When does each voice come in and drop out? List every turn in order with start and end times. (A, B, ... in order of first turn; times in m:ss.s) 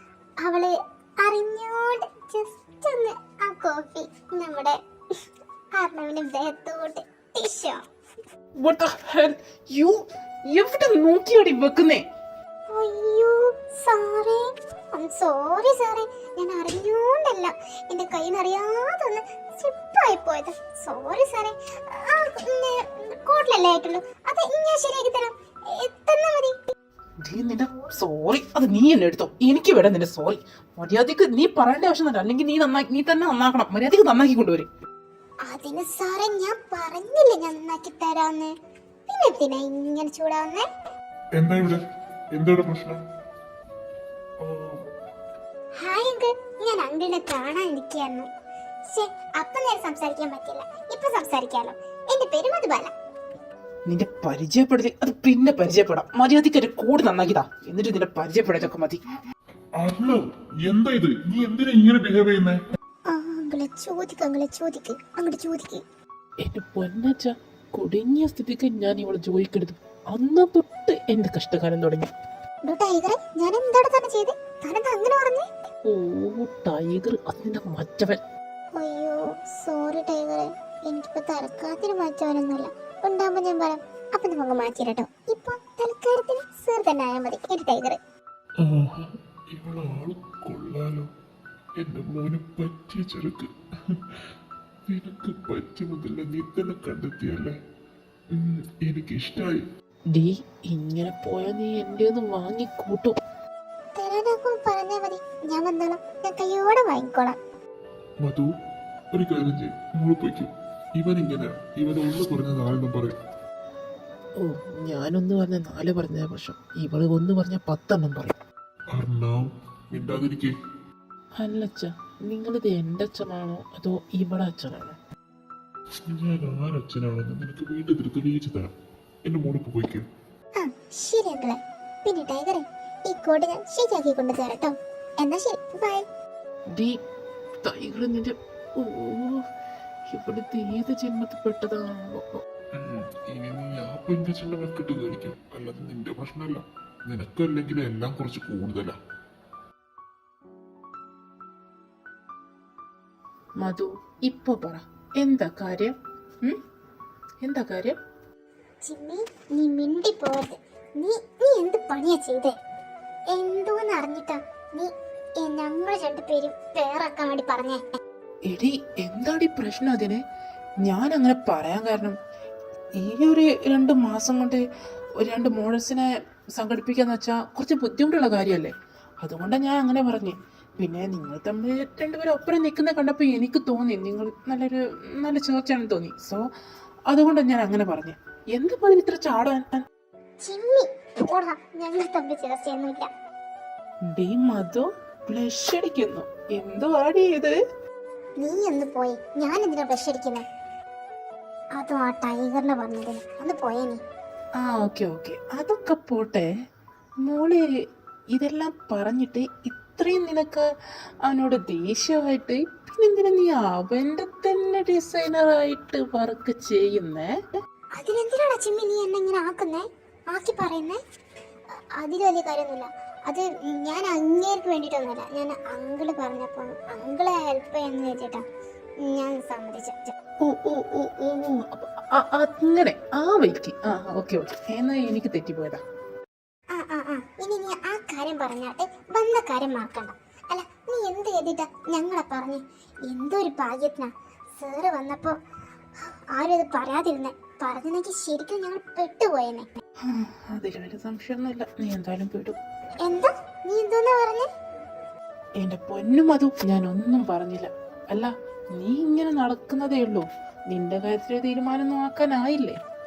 0:00.4-0:05.2 A
0:05.7-0:07.8 A
0:08.6-0:12.0 B
0:12.7-0:26.7 A
0:27.2-0:34.7 B
0:35.4-0:38.5 A
0:39.1-0:40.7 A
0:41.4-0:41.8 C
0:42.3-0:43.0 C
0:44.4-0:44.8 C
0:45.7-0:48.3 A
0:48.9-0:52.9 A
0:53.9-0:59.0 B
0:59.8-1:02.6 C
1:03.1-1:05.8 A
1:06.4-1:12.1 B
1:12.6-1:15.5 A
1:15.9-1:18.2 B
1:18.8-1:28.0 A
1:28.6-1:31.1 C
1:31.8-1:34.3 C
1:34.9-1:37.6 C
1:38.3-1:39.6 C
1:40.1-1:43.2 B
1:43.9-1:47.4 A
1:48.2-1:48.5 C
1:49.1-1:53.2 C
1:54.4-1:58.4 B
1:58.9-2:00.5 C
2:01.4-2:05.0 B
2:06.1-2:08.7 C
2:09.2-2:10.1 C
2:10.6-2:16.0 A
2:16.7-2:17.0 B
2:17.6-2:19.5 B
2:20.1-2:22.4 B
2:22.7-2:29.0 C
2:33.6-2:36.6 B
2:37.4-2:38.0 B
2:38.8-2:42.6 A
2:43.3-2:47.8 A
2:48.5-2:50.2 B
2:50.8-2:52.2 B
2:53.0-2:54.6 B
2:55.2-3:06.4 B
3:07.1-3:09.8 B
3:10.4-3:13.1 A
3:14.0-3:17.6 B
3:18.4-3:20.4 A
3:21.8-3:24.0 A
3:24.6-3:26.5 B
3:27.2-3:27.6 B
3:28.3-3:30.6 B
3:31.2-3:37.3 B
3:38.0-3:41.0 A
3:41.7-3:48.4 A
3:49.0-3:50.1 A
3:50.4-3:55.8 B
3:56.7-4:05.4 A
4:06.0-4:09.7 A
4:10.0-4:12.6 B
4:13.0-4:14.5 A
4:15.6-4:22.8 B